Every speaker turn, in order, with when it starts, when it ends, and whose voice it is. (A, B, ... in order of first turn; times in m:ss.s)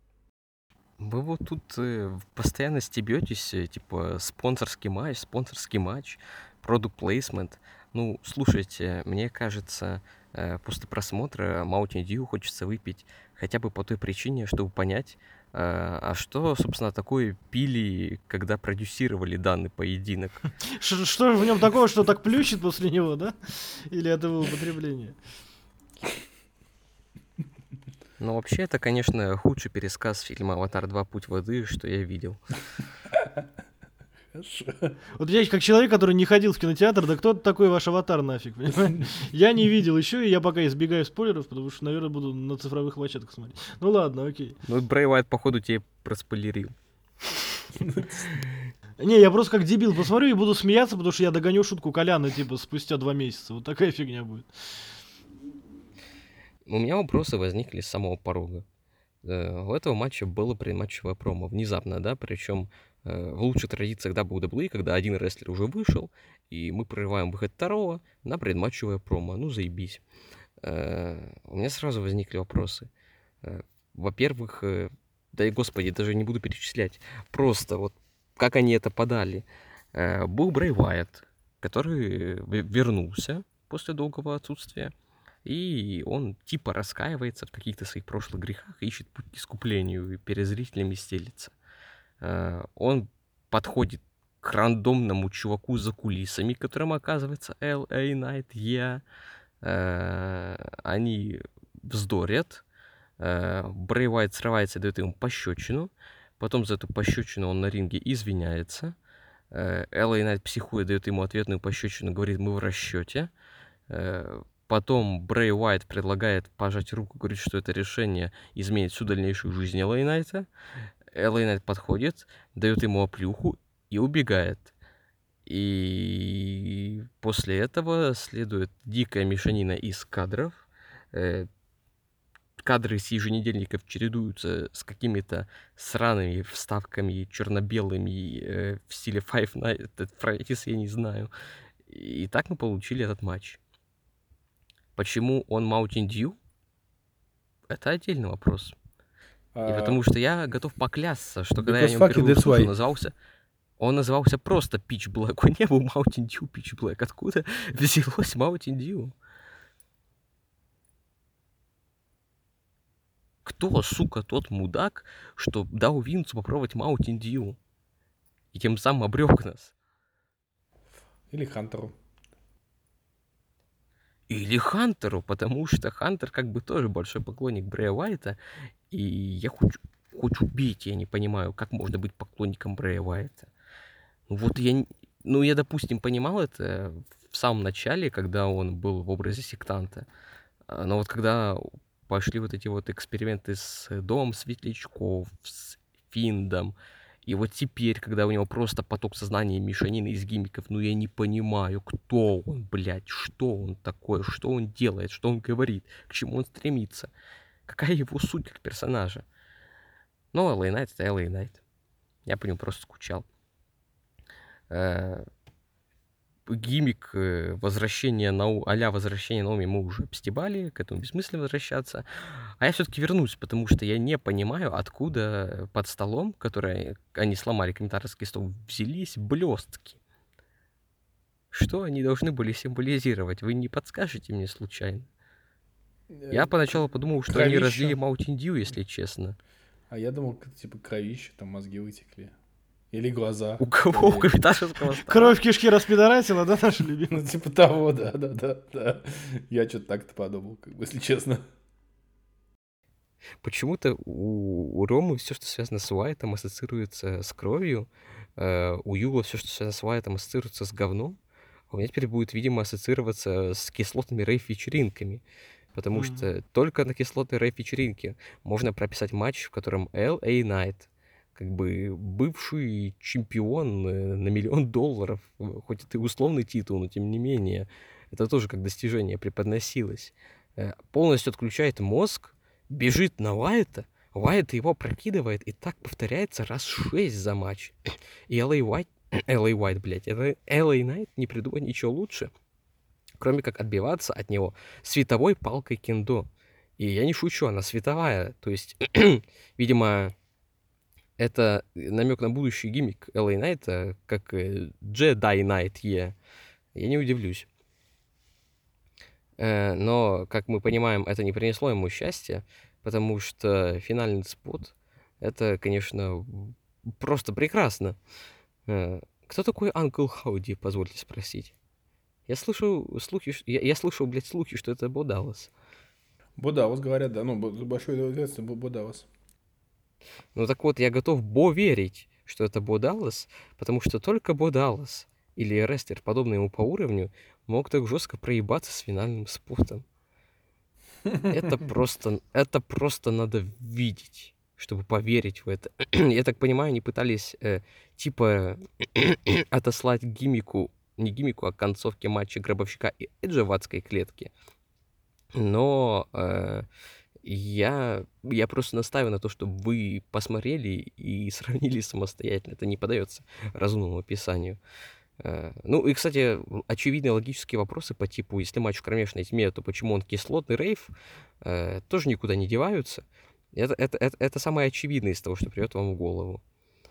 0:01.0-0:20.5 A
0:20.6-0:25.2 B
0:28.2-0:32.4 A
0:33.1-0:33.4 C
0:34.3-0:35.0 C
0:35.2-0:44.6 B
0:44.6-0:46.7 A
0:47.8-0:48.3 C
0:49.0-0:54.5 B
0:56.6-0:58.6 A
0:59.2-1:10.0 A
1:10.6-1:12.9 A
1:13.4-1:24.9 A
1:25.4-1:31.5 A
1:32.2-1:39.0 A
1:39.6-1:42.6 A
1:43.2-1:49.0 A
1:49.5-1:53.3 A
1:53.9-2:00.5 A
2:01.1-2:04.7 A
2:05.4-2:10.6 A
2:11.1-2:11.5 A
2:12.6-2:21.3 A
2:21.9-2:23.6 A
2:25.0-2:26.4 A
2:27.7-2:28.7 A
2:29.5-2:30.0 C
2:29.7-2:33.1 A
2:31.6-2:32.7 C
2:33.8-2:39.1 A
2:43.4-2:47.6 A
2:48.5-2:49.7 A
2:51.3-2:51.9 C
2:54.3-2:58.4 A
2:58.9-3:03.5 A
3:04.3-3:10.1 A
3:10.7-3:27.1 A
3:27.7-3:29.2 A
3:30.3-3:31.6 A
3:32.2-3:33.2 A
3:34.7-3:35.2 A
3:36.5-3:50.0 A
3:51.5-3:55.0 A
3:56.1-3:58.0 C
3:56.3-3:59.4 A
3:59.9-4:02.3 C
4:02.9-4:04.3 C
4:03.6-4:05.4 A
4:05.0-4:07.2 B
4:07.1-4:11.4 C
4:13.4-4:21.2 A
4:21.7-4:25.2 A
4:25.7-4:47.8 A
4:25.9-4:26.3 B
4:48.3-4:52.3 A
4:53.2-4:56.3 A
4:56.8-5:00.1 A
5:01.2-5:06.2 A
5:06.7-5:07.5 A
5:09.4-5:18.0 A
5:18.7-5:21.5 A
5:22.3-5:25.5 A
5:26.4-5:29.1 C
5:30.3-5:39.8 A
5:41.2-5:54.3 A
5:55.3-5:56.7 A
5:57.2-6:04.6 A
6:05.2-6:16.4 A